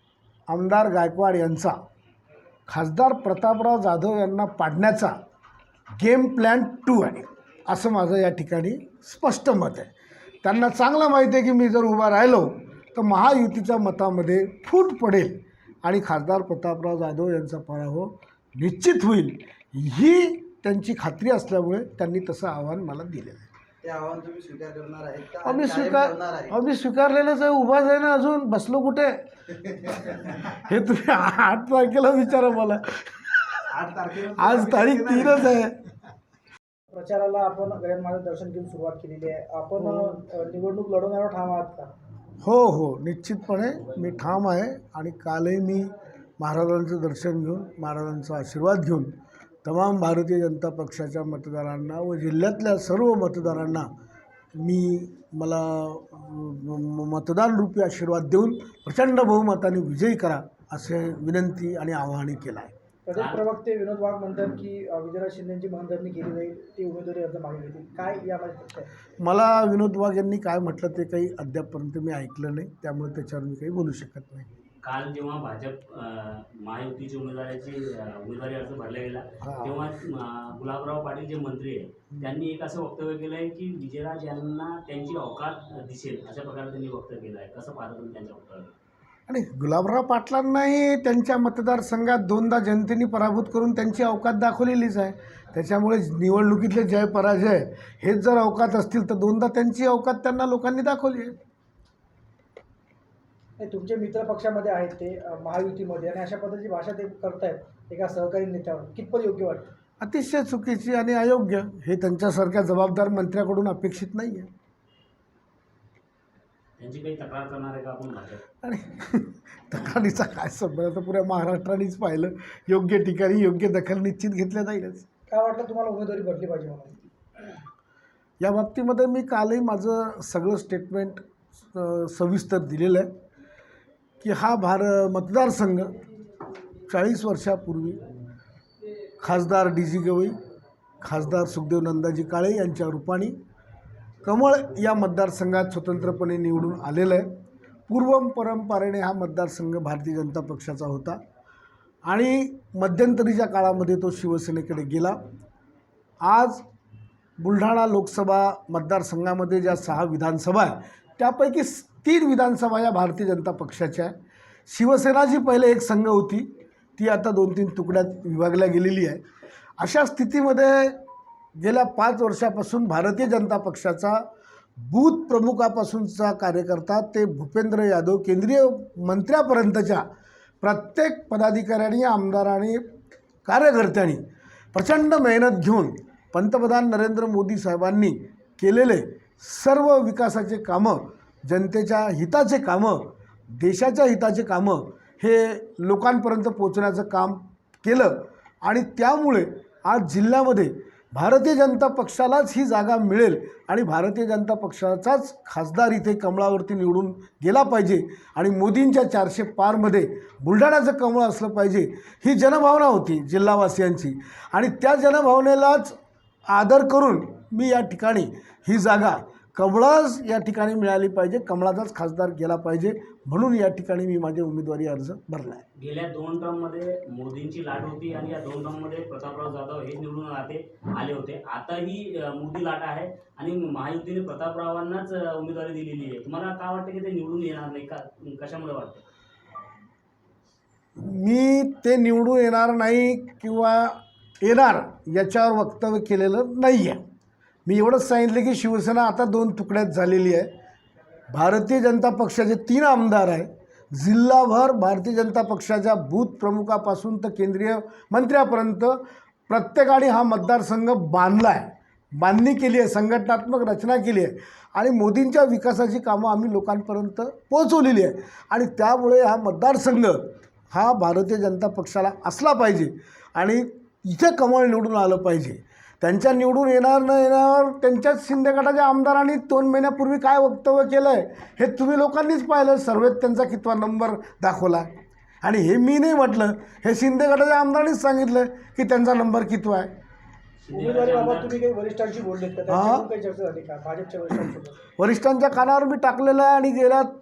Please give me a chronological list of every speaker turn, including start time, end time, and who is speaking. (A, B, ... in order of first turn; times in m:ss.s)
0:00.5-0:01.8 A
0:02.7-0:05.2 A
0:06.0-0:09.9 A
0:10.4-0:23.5 A
0:23.8-0:26.6 B
0:25.4-0:29.2 A
0:29.9-0:33.6 A
0:33.7-0:35.5 B
0:34.4-0:35.8 A
0:36.9-0:41.9 C
0:42.4-0:49.1 A
0:49.6-0:53.9 A
0:54.6-1:02.7 A
1:03.1-1:08.9 C
1:03.1-1:03.5 D
1:09.2-1:14.5 A
1:14.8-1:28.7 D
1:19.4-1:19.8 A
1:29.3-1:41.4 A
1:43.6-1:49.7 C
1:50.0-1:54.5 A
1:56.8-1:58.4 D
1:58.6-2:05.1 A
2:05.3-2:07.0 C
2:08.4-2:13.1 A
2:14.2-2:15.9 A
2:16.9-2:18.1 A
2:19.2-2:20.4 A
2:21.0-2:23.4 A
2:24.2-2:27.3 A
2:27.9-2:31.2 A
2:32.1-2:35.2 A
2:36.2-2:36.6 A
2:37.4-2:44.1 A
2:44.7-2:49.2 A
2:49.8-2:51.0 A
2:51.6-2:54.2 A
2:54.8-3:00.1 A
3:00.6-3:02.8 A
3:03.4-3:04.2 A
3:04.7-3:36.0 A
3:36.5-3:45.6 A
3:45.8-3:59.0 D
4:01.0-4:07.0 A
4:07.7-4:10.5 A
4:11.3-4:44.9 A
4:45.4-4:49.9 A
4:50.6-4:51.6 D
4:50.7-4:54.8 C
4:52.7-4:53.1 A
4:55.0-4:57.1 A